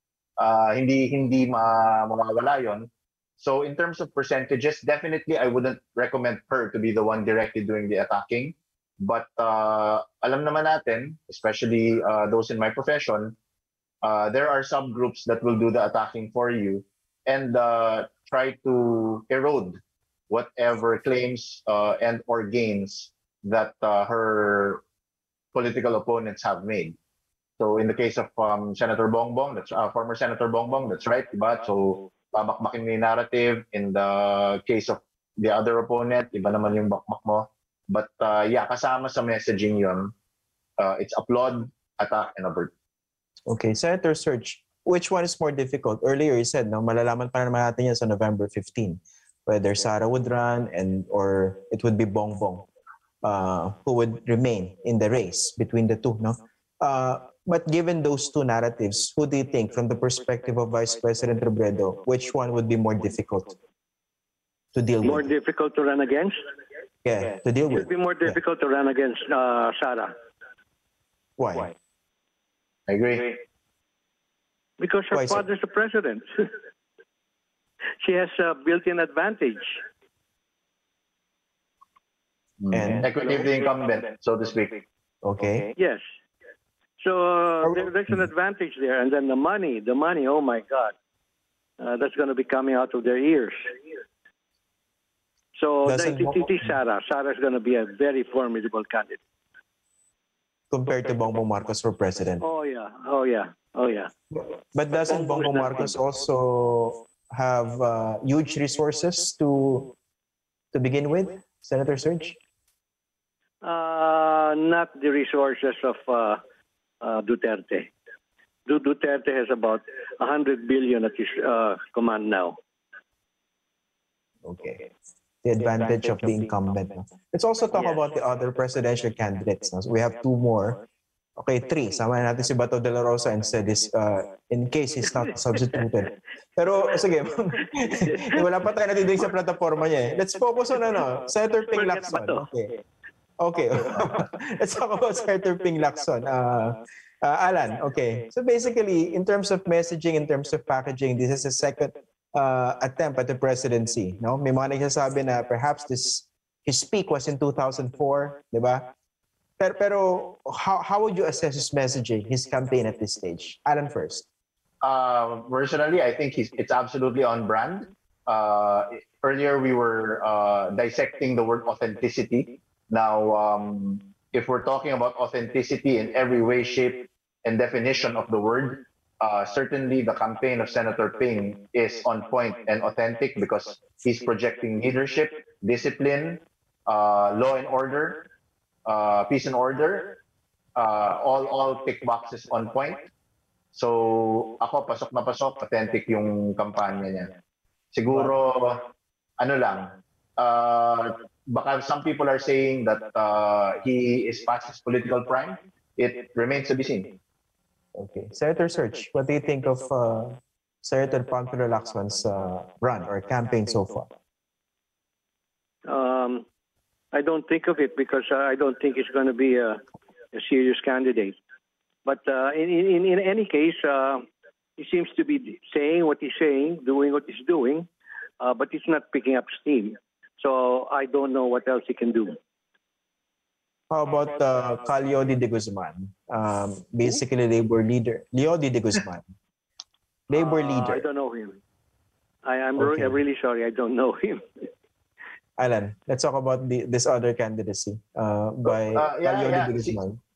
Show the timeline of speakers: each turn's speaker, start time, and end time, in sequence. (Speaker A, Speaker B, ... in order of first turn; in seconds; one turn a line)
Speaker A: 0.4-13.3
Speaker A: 14.0-24.8
Speaker A: 25.5-26.9
Speaker A: 27.6-40.1
Speaker A: 40.8-42.7
Speaker B: 43.5-52.7
Speaker B: 53.2-63.5
Speaker B: 64.7-65.3
Speaker C: 65.0-66.4
Speaker B: 67.0-68.4
Speaker C: 67.7-70.1
Speaker B: 71.4-71.7
Speaker A: 72.9-73.4
Speaker C: 74.8-76.5
Speaker B: 75.1-75.4
Speaker C: 78.0-79.8
Speaker A: 82.6-84.8
Speaker B: 82.7-83.1
Speaker B: 85.2-85.7
Speaker C: 85.8-86.0
Speaker C: 87.0-90.9
Speaker C: 91.8-93.7
Speaker C: 95.5-99.2
Speaker B: 95.8-96.5
Speaker B: 100.7-102.4
Speaker C: 102.4-104.1
Speaker B: 104.3-109.9
Speaker C: 105.3-105.8
Speaker B: 110.7-112.4
Speaker C: 113.6-116.4
Speaker C: 117.0-117.9
Speaker C: 118.7-122.6
Speaker B: 124.4-124.9
Speaker B: 125.4-130.8
Speaker B: 131.4-142.8
Speaker C: 141.8-142.4
Speaker B: 143.4-158.9
Speaker B: 159.6-164.3
Speaker A: 164.8-188.2
Speaker A: 188.8-190.2
Speaker A: 190.8-193.1
Speaker A: 193.7-197.3
Speaker A: 197.9-207.2
Speaker B: 207.9-214.1
Speaker C: 215.8-216.4
Speaker C: 217.1-219.8
Speaker C: 220.3-221.4
Speaker C: 222.0-224.2
Speaker C: 224.8-227.9
Speaker C: 228.4-232.4
Speaker B: 233.9-239.3
Speaker B: 240.3-241.1
Speaker C: 240.3-241.6
Speaker C: 242.4-244.5
Speaker B: 242.8-243.2
Speaker B: 245.6-250.2
Speaker A: 248.7-250.0